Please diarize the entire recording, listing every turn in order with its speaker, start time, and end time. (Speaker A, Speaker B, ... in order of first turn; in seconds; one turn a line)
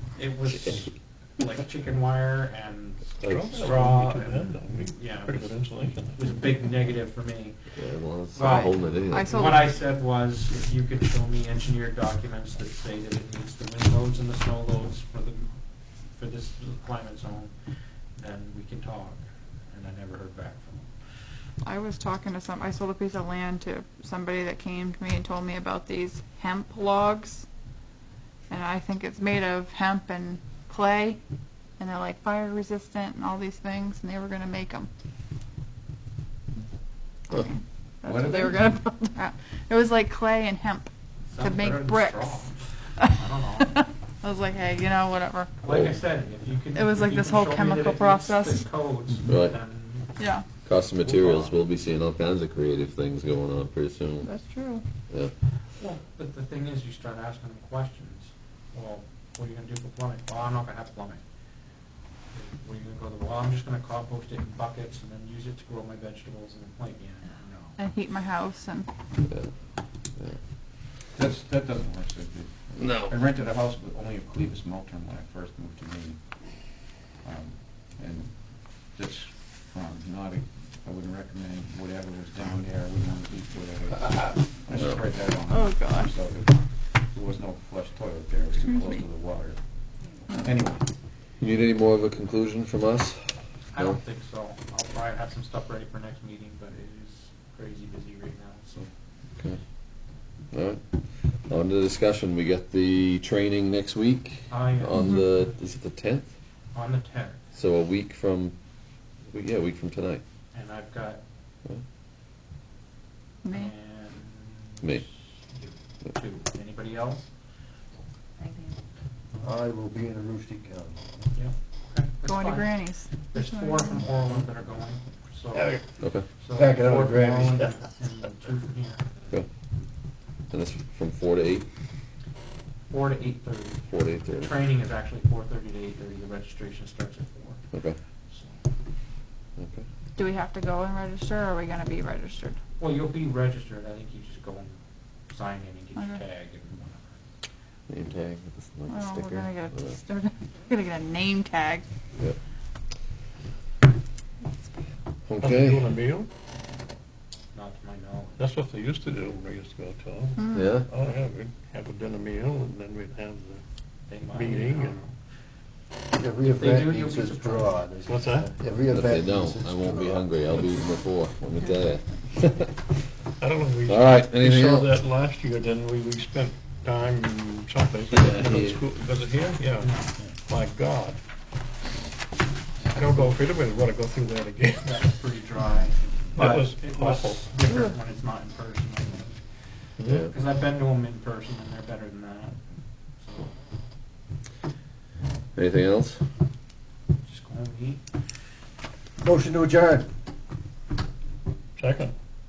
Speaker A: 0.1-7.6
Speaker B: 3.2-6.3
Speaker C: 7.7-9.4
Speaker A: 8.3-15.6
Speaker D: 8.4-9.6
Speaker A: 16.1-17.5
Speaker A: 18.2-20.9
Speaker D: 21.6-27.5
Speaker D: 28.5-31.2
Speaker D: 31.8-34.9
Speaker D: 37.3-42.5
Speaker E: 38.0-38.8
Speaker A: 41.3-43.8
Speaker D: 43.8-45.6
Speaker A: 45.6-50.2
Speaker C: 45.7-46.0
Speaker D: 46.7-48.7
Speaker C: 49.2-49.6
Speaker D: 50.2-50.5
Speaker C: 50.6-54.3
Speaker A: 51.0-51.5
Speaker D: 54.2-54.8
Speaker A: 55.8-61.2
Speaker A: 62.3-67.8
Speaker D: 67.8-68.9
Speaker C: 69.2-69.5
Speaker E: 71.1-89.6
Speaker C: 72.8-73.1
Speaker D: 85.5-86.1
Speaker E: 90.3-90.8
Speaker C: 91.4-94.0
Speaker A: 93.7-98.9
Speaker C: 100.5-106.3
Speaker A: 104.5-105.0
Speaker D: 104.9-105.2
Speaker A: 106.7-107.5
Speaker C: 107.5-108.6
Speaker C: 109.3-110.2
Speaker A: 110.5-111.2
Speaker D: 113.4-113.7
Speaker A: 113.5-117.3
Speaker F: 119.4-121.3
Speaker A: 121.3-122.8
Speaker D: 122.2-124.2
Speaker A: 123.3-129.0
Speaker C: 126.0-126.2
Speaker F: 126.5-127.7
Speaker C: 130.5-131.7
Speaker A: 132.9-137.6
Speaker C: 133.9-134.5
Speaker C: 137.7-138.0
Speaker A: 138.3-138.6
Speaker C: 139.6-139.9
Speaker D: 140.2-142.6
Speaker A: 142.8-147.2
Speaker C: 147.9-149.8
Speaker D: 148.9-151.8
Speaker C: 155.3-155.8
Speaker B: 155.4-156.3
Speaker A: 157.5-158.4
Speaker B: 158.4-163.6
Speaker D: 160.4-160.8
Speaker C: 160.5-160.9
Speaker A: 164.1-165.2
Speaker B: 164.3-165.0
Speaker F: 166.2-170.7
Speaker A: 166.4-168.3
Speaker B: 168.1-168.5
Speaker C: 168.9-172.9
Speaker B: 173.4-181.2
Speaker C: 173.9-174.9
Speaker C: 178.1-178.8
Speaker A: 179.8-180.1
Speaker B: 182.9-185.1
Speaker A: 184.8-189.4
Speaker B: 186.3-187.5
Speaker B: 190.0-190.3
Speaker A: 190.2-193.5
Speaker C: 195.6-196.2
Speaker A: 197.2-198.0
Speaker F: 199.2-200.1
Speaker B: 201.8-202.1